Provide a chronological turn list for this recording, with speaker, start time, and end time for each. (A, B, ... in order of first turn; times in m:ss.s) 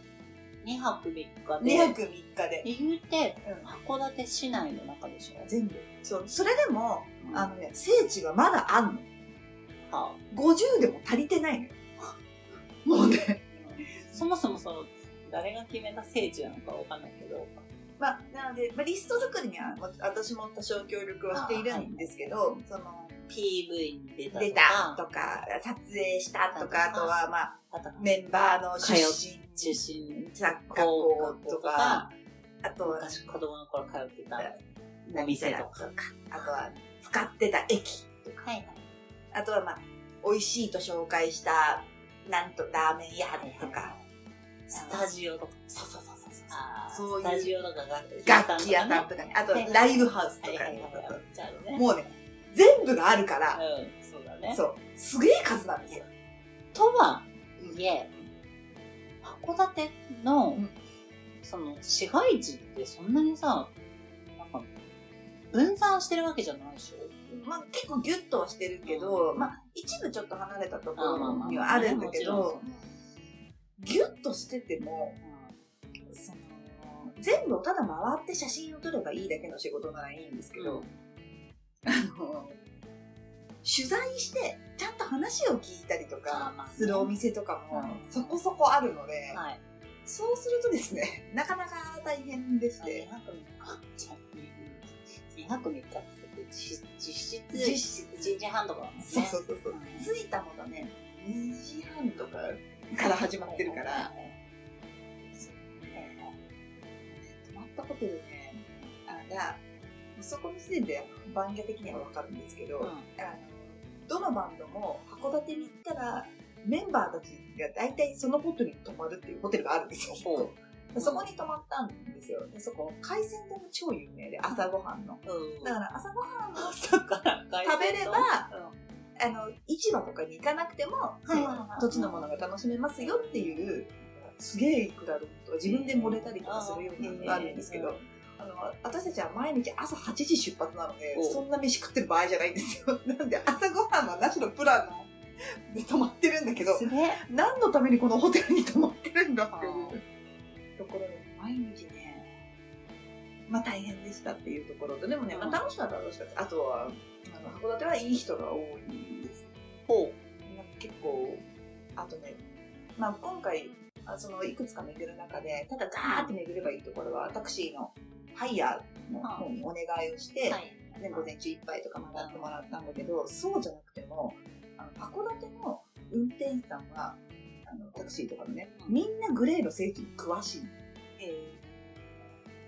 0:00.6-0:02.0 A
0:01.6-0:02.7 B
0:02.6-0:05.5 A
0:05.4-0:09.1 B
0:07.2-0:07.6 A
0:09.8-0:10.2 A
0:10.3-0:11.8 B
0:12.8-0:13.4 B
0:13.5-0:17.6 A
0:18.0-0:23.4 B
0:21.3-0:22.1 A
0:23.3-0:25.0 A
0:24.3-0:32.1 B
0:26.5-0:27.2 A
0:27.7-0:28.1 A
0:28.8-0:32.1 A
0:32.6-0:33.2 B
0:32.8-0:34.6 A
0:34.4-0:38.4 B
0:35.1-0:35.9 A
0:36.4-0:36.8 A
0:38.4-0:38.8 A
0:39.3-0:43.9 B
0:43.4-0:44.0 A
0:44.7-0:45.1 B
0:44.7-0:45.6 A
0:45.7-0:47.5 B
0:46.5-0:51.9 A
0:48.1-0:53.6 B
0:53.5-0:54.6 A
0:54.5-0:56.0 B
0:56.7-0:58.1 A
0:57.6-0:58.3 B
0:59.2-1:00.6 A
1:01.4-1:03.7 A
1:04.4-1:04.7 A
1:05.5-1:07.1 A
1:07.3-1:12.6 B
1:08.8-1:09.6 A
1:11.0-1:12.9 A
1:13.8-1:15.2 B
1:15.2-1:15.6 A
1:16.1-1:20.8 B
1:20.6-1:20.9 A
1:21.9-1:22.6 B
1:23.6-1:29.4 B
1:26.3-1:27.1 A
1:27.7-1:28.4 A
1:29.3-1:29.6 A
1:30.0-1:33.1 B
1:32.8-1:40.1 A
1:37.5-1:38.4 B
1:39.0-1:44.1 B
1:43.4-1:44.4 A
1:45.2-1:46.3 B
1:45.9-1:46.3 A
1:47.1-1:49.6 B
1:50.2-2:06.8 B
1:52.8-1:53.1 A
2:00.2-2:01.3 A
2:05.2-2:05.8 A
2:06.5-2:08.8 A
2:07.6-2:08.5 B
2:09.2-2:25.1 B
2:11.2-2:12.3 A
2:13.0-2:13.8 A
2:15.6-2:18.0 A
2:21.1-2:21.4 A
2:25.7-2:30.0 B
2:26.6-2:27.2 A
2:29.5-2:30.0 A
2:30.8-2:32.3 B
2:33.5-2:39.5 B
2:35.3-2:35.6 A
2:39.9-2:40.2 A
2:40.4-2:42.4 B
2:43.0-3:00.7 B
2:46.0-2:46.4 A
2:49.2-2:49.5 A
2:50.5-2:51.3 A
2:52.1-2:53.0 A
2:58.7-2:59.0 A
3:01.2-3:02.4 A